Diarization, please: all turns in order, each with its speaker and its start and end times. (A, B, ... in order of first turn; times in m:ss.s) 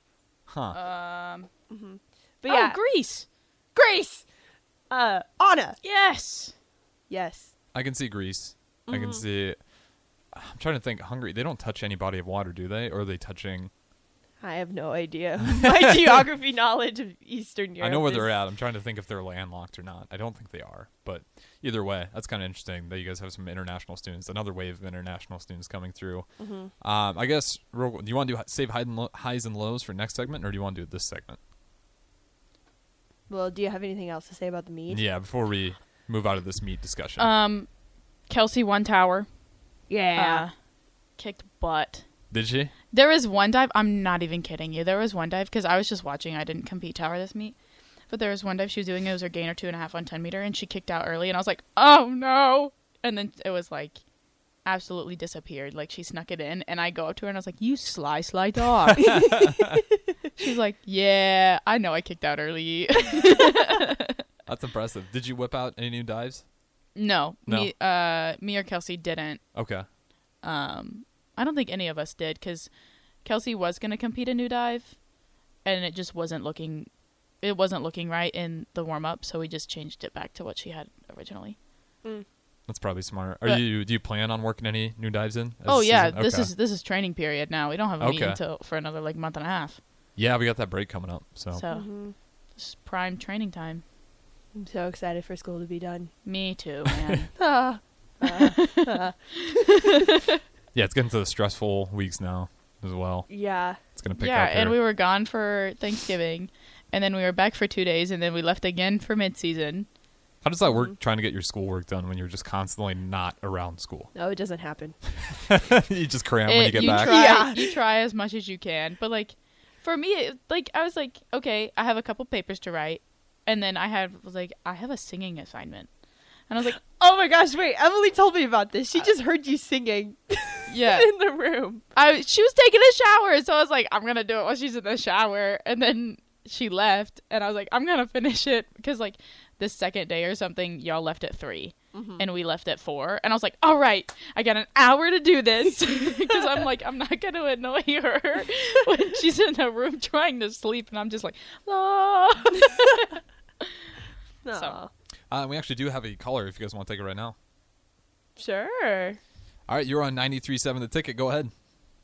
0:00.5-0:00.8 A
0:00.7-0:01.5 B
0:01.7-0:02.8 C
0:02.5-0:03.2 B
0:03.8-0:04.2 C
0:04.9-0:05.8 C
0:05.8-0:06.5 B
0:07.1-0:07.5 C
0:07.7-0:09.6 A
0:08.9-0:09.2 C
0:10.3-0:13.7 A
0:14.4-0:18.3 C
0:15.5-0:16.0 A
0:17.8-0:26.3 A
0:26.4-0:26.7 C
0:26.8-0:31.4 A
0:33.3-0:35.0 C
0:34.9-0:37.3 A
0:37.2-0:37.7 B
0:38.3-0:39.3 B
0:39.9-0:40.4 C
0:40.2-0:40.5 B
0:41.2-0:42.1 B
0:42.3-0:42.7 A
0:42.9-0:47.6 B
0:48.1-0:54.0 B
0:54.6-0:59.4 B
0:59.0-0:59.8 A
1:00.4-1:04.2 B
1:04.5-1:06.4 A
1:07.0-1:09.4 B
1:09.5-1:09.9 A
1:10.4-1:12.7 B
1:13.2-1:15.0 B
1:15.6-1:16.9 B
1:17.4-1:21.6 B
1:22.7-1:26.5 A
1:25.7-1:29.8 B
1:28.0-1:28.4 A
1:30.2-1:31.6 A
1:31.5-1:31.9 B
1:31.7-1:32.2 C
1:32.6-1:33.8 B
1:34.6-1:36.1 C
1:36.2-1:37.3 B
1:37.4-1:39.6 C
1:38.2-1:39.0 B
1:39.5-1:40.1 B
1:40.7-1:43.3 A
1:43.3-1:43.8 C
1:44.0-1:44.8 A
1:44.2-1:49.9 B
1:50.4-1:54.1 A
1:54.1-1:55.0 C
1:55.2-1:57.2 A
1:56.5-2:05.9 B
1:56.8-1:57.7 C
2:06.5-2:06.8 B
2:06.8-2:11.8 C
2:10.7-2:11.1 B
2:11.9-2:33.7 B
2:21.9-2:22.2 C
2:34.4-2:34.9 C
2:35.3-2:37.4 A
2:38.4-2:39.2 C
2:39.7-2:41.5 A